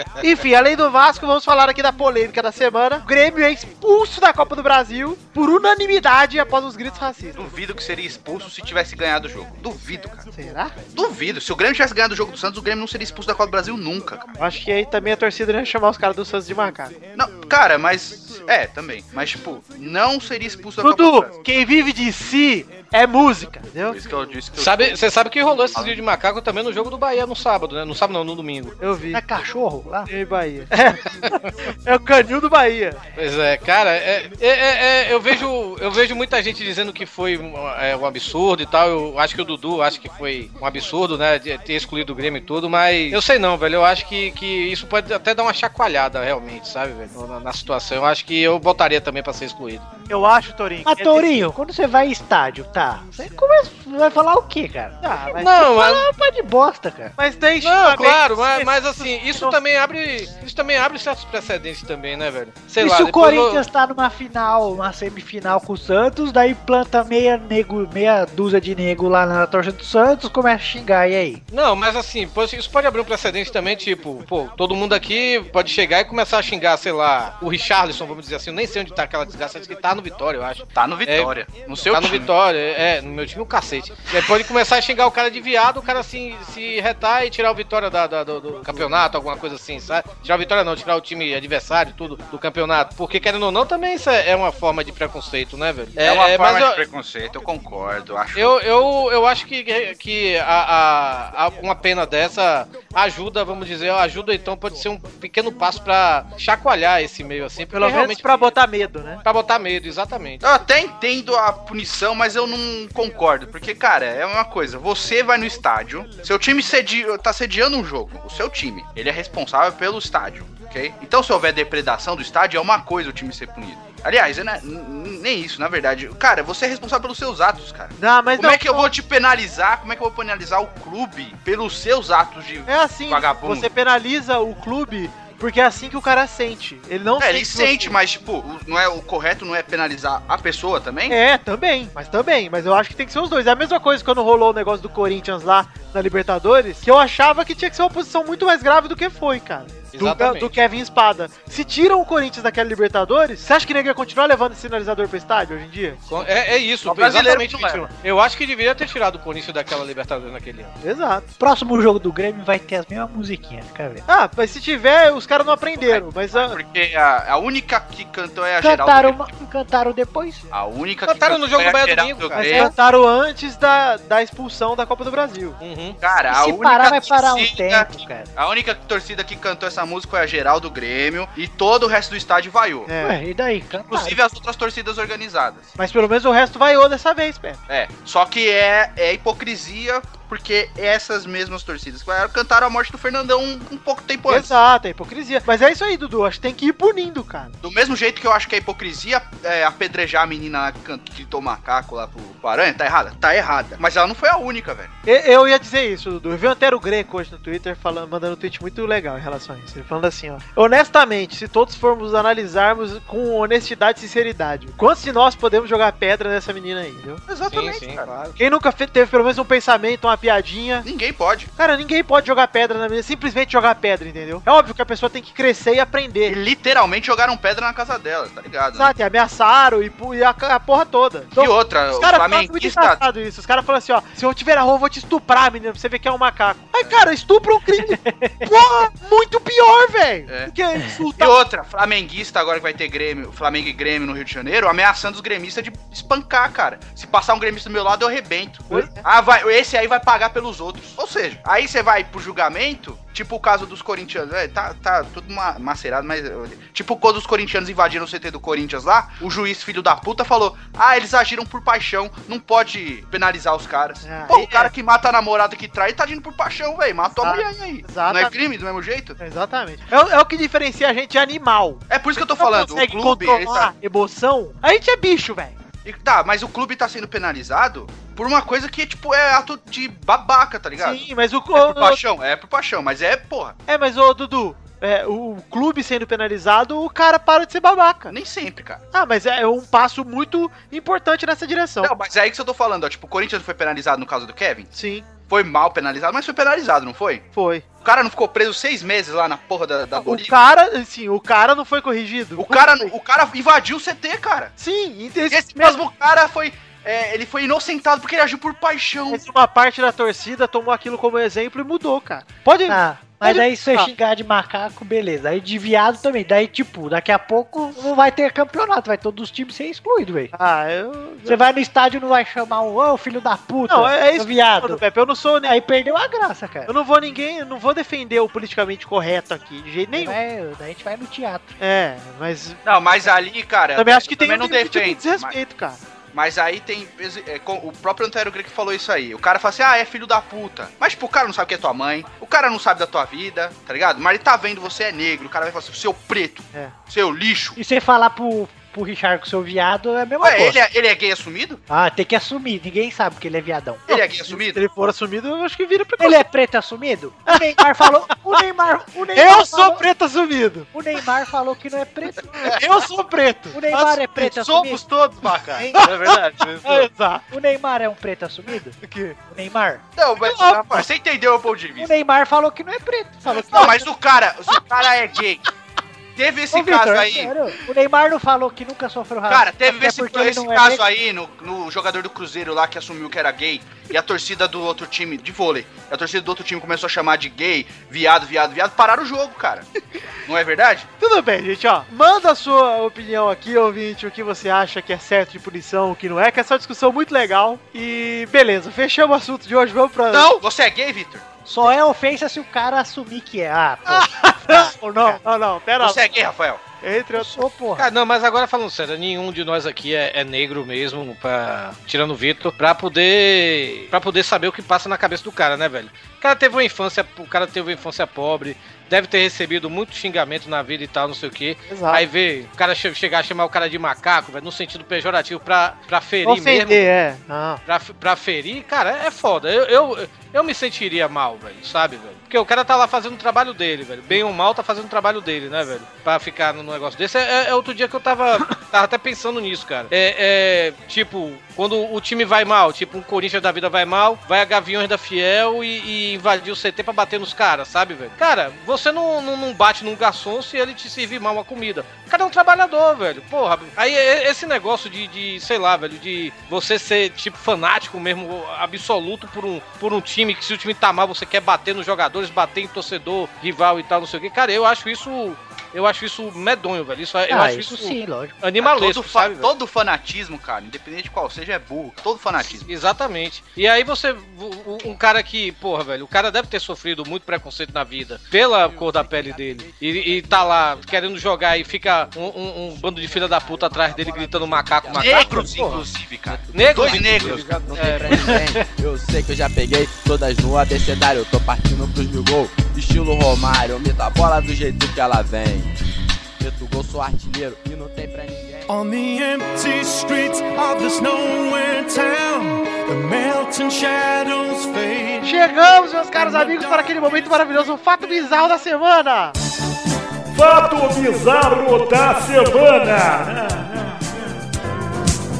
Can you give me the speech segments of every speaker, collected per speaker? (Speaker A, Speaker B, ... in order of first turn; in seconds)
Speaker A: 0.2-7.4, 10.3-10.7, 14.4-16.9, 20.8-24.0, 28.8-29.2, 30.1-31.1, 31.7-33.0, 50.1-51.3, 55.0-55.5, 57.2-59.6, 107.7-109.2, 128.0-128.9, 132.7-137.9, 141.1-156.0, 160.8-161.3, 164.1-166.6, 172.4-175.6, 182.9-183.2, 185.8-187.6, 194.3-197.5, 205.1-217.2, 218.4-220.8, 221.6-226.4, 228.7-241.3, 248.7-249.0, 264.0-264.7, 267.2-268.3, 269.2-275.6, 280.8-282.0, 283.7-288.1, 288.9-291.9, 294.7-295.1, 297.3-297.6, 299.9-302.9, 304.6-305.8, 309.1-313.9, 320.3-321.4, 323.7-325.6, 326.7-330.2, 331.6-332.6, 333.8-335.8, 353.9-356.2, 357.3-358.4, 359.1-360.7, 362.4-364.0, 365.6-367.2, 368.8-369.2, 370.2-370.9, 391.0-400.3, 403.9-406.1, 406.8-407.5, 421.7-422.0, 426.2-427.6, 505.2-509.3
Speaker B: 7.3-10.3, 10.9-14.3, 17.1-21.3, 23.9-25.0, 25.7-26.0, 80.7-82.3, 96.0-98.6, 110.4-133.7, 137.2-141.2, 156.8-157.9, 165.8-169.2, 170.5-172.7, 176.0-182.9, 183.9-185.7, 187.7-194.6, 197.6-204.9, 217.3-218.2, 220.8-221.5, 226.2-228.9, 231.3-233.0, 240.3-240.5, 241.1-269.2, 271.9-273.7, 275.8-283.6, 288.1-288.8, 291.8-294.7, 295.3-297.2, 297.8-300.3, 302.4-304.5, 305.3-309.2, 332.6-335.4, 336.1-347.6, 350.2-351.6, 353.9-354.6, 364.1-366.9, 369.9-371.9, 373.3-375.4, 376.1-377.3, 379.3-389.7, 390.2-390.9, 400.1-401.2, 405.8-406.6, 468.6-472.7, 484.9-487.5
Speaker C: 24.6-28.7, 33.1-49.9, 55.4-56.1, 57.6-63.6, 71.5-81.3, 81.9-96.8, 98.3-108.5, 109.2-110.4, 149.9-150.5, 156.1-160.7, 171.0-172.7, 175.6-176.0, 217.5-218.3, 407.8-426.8, 427.7-469.5, 472.6-485.8, 486.5-488.4
Speaker D: 29.1-30.1, 50.9-57.1, 62.8-71.4, 161.4-164.0, 168.6-170.4, 176.3-178.3, 183.0-184.2, 237.8-238.5, 312.7-320.3, 321.2-324.8, 325.4-326.7, 329.9-331.5, 347.6-350.6, 351.7-353.9, 356.0-359.8, 360.7-362.5, 363.5-364.8, 367.3-369.8, 371.8-373.9, 376.5-380.8, 401.4-405.2, 407.1-407.9, 467.3-468.4
Speaker E: 478.5-495.8, 496.4-498.7
Speaker F: 498.7-505.4, 506.1-507.4
Speaker G: 510.3-513.9